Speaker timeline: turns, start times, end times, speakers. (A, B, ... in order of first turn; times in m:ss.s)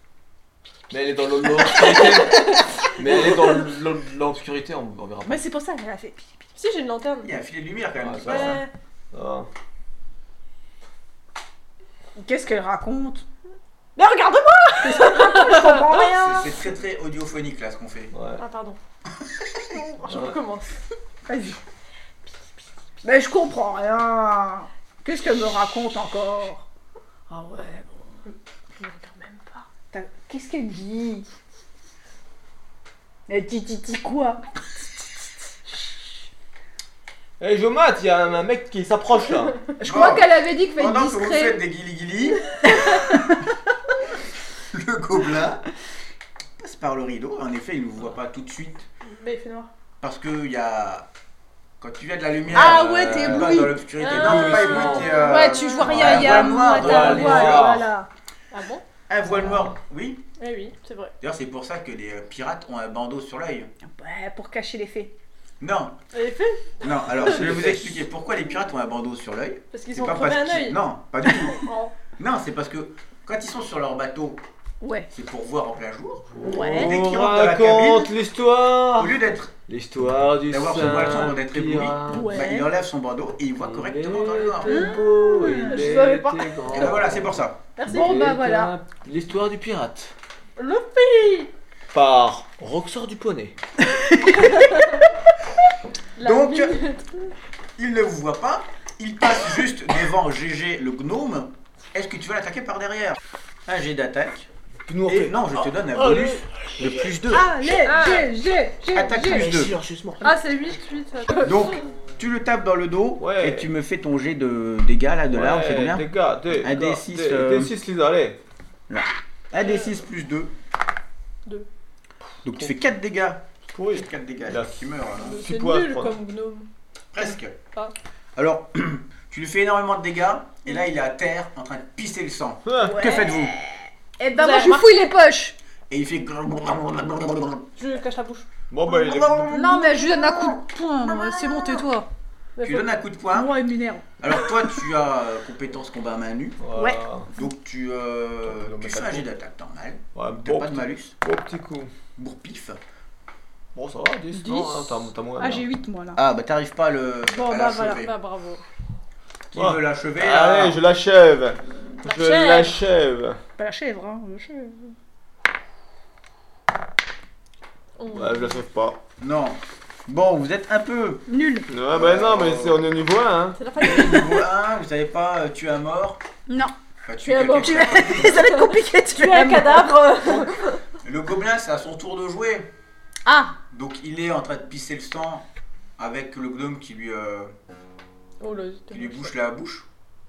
0:00.9-0:05.4 A
0:01.6-0:03.6 B
0:05.2-0:06.4 C
0:06.6-0:07.3 B
0:07.2-0:08.6 D
0:08.0-0:09.5 A
0:08.2-0:08.7 B
0:12.2-0:13.2 C
0:14.0-0:16.1 B
0:14.8-0:16.5 C
0:16.1-0:18.1 D
0:18.1-0:18.4 A
0:18.4-0:18.8 B
0:19.2-0:19.7 D
0:19.7-0:20.7 B
0:20.0-0:20.4 A
0:21.3-0:21.6 C
0:23.0-0:26.6 C
0:27.3-0:27.9 C
0:28.8-0:29.6 B
0:29.9-0:31.3 C
0:33.3-0:34.4 C
0:37.4-0:39.6 A
0:39.8-0:41.6 C
0:39.8-0:42.6 D
0:42.6-0:43.5 C
0:44.7-0:45.6 D
0:46.6-0:48.9 D
0:49.0-0:49.7 B
0:50.0-0:51.1 D
0:51.8-0:57.7 D
0:52.5-0:55.3 A
0:52.5-0:53.8 C
0:54.0-0:56.0 B
0:55.0-0:58.1 C
0:55.8-0:57.9 A
0:58.5-0:58.8 B
0:59.1-1:00.2 D
0:59.3-0:59.7 A
1:00.4-1:01.1 B
1:01.2-1:03.7 D
1:03.9-1:05.1 C
1:05.6-1:06.0 D
1:06.1-1:07.2 B
1:06.8-1:11.6 D
1:07.1-1:08.0 A
1:09.7-1:10.8 B
1:12.2-1:14.4 D
1:14.8-1:15.1 C
1:15.1-1:18.1 D
1:16.4-1:16.9 C
1:16.4-1:22.5 A
1:19.0-1:19.5 D
1:20.5-1:24.8 D
1:22.1-1:22.7 C
1:23.6-1:30.1 A
1:24.6-1:26.3 B
1:24.6-1:26.8 C
1:26.7-1:27.6 D
1:27.8-1:28.7 C
1:27.8-1:28.1 B
1:30.6-1:31.5 B
1:31.9-1:33.6 A
1:33.8-1:34.8 C
1:34.5-1:35.0 B
1:36.2-1:37.3 B
1:36.2-1:36.8 D
1:37.8-1:44.5 D
1:44.9-1:47.1 A
1:45.0-1:47.5 D
1:47.3-1:49.5 C
1:47.8-1:48.3 B
1:48.9-1:49.8 D
1:49.1-1:50.3 A
1:50.2-1:51.8 B
1:51.4-1:56.1 D
1:53.2-1:53.7 A
1:55.3-1:58.4 A
1:56.6-1:57.7 D
1:58.9-2:00.5 D
1:59.6-1:59.9 B
2:02.4-2:05.4 D
2:03.7-2:06.2 A
2:05.2-2:06.7 B
2:07.1-2:07.6 D
2:08.4-2:13.5 D
2:12.6-2:13.0 A
2:12.8-2:15.6 C
2:14.3-2:15.1 B
2:15.9-2:17.6 D
2:17.8-2:18.5 B
2:18.7-2:20.2 A
2:19.0-2:22.1 C
2:19.1-2:19.6 D
2:22.6-2:22.9 B
2:22.6-2:23.5 D
2:23.3-2:24.0 C
2:24.2-2:26.6 D
2:26.6-2:27.3 A
2:26.7-2:27.4 C
2:27.3-2:31.1 D
2:28.4-2:29.3 A
2:30.1-2:31.9 A
2:32.2-2:32.8 D
2:33.7-2:35.7 A
2:34.4-2:36.2 C
2:36.2-2:38.1 D
2:37.4-2:37.8 C
2:37.4-2:38.6 B
2:39.5-2:40.8 D
2:39.5-2:43.4 A
2:42.0-2:42.8 B
2:43.6-2:44.9 C
2:48.0-2:48.6 B
2:48.1-2:49.0 A
2:49.2-2:51.3 D
2:51.3-2:51.7 C
2:51.7-2:53.6 A
2:51.9-2:52.8 D
2:53.6-2:54.4 B
2:53.8-2:56.2 D
2:56.5-2:56.7 C
2:57.0-2:58.4 D
2:57.2-3:00.8 B
2:57.6-2:59.9 C
3:01.0-3:02.7 D
3:03.2-3:03.6 C
3:03.7-3:05.4 D
3:06.0-3:07.5 D
3:08.4-3:09.3 B
3:08.9-3:09.8 D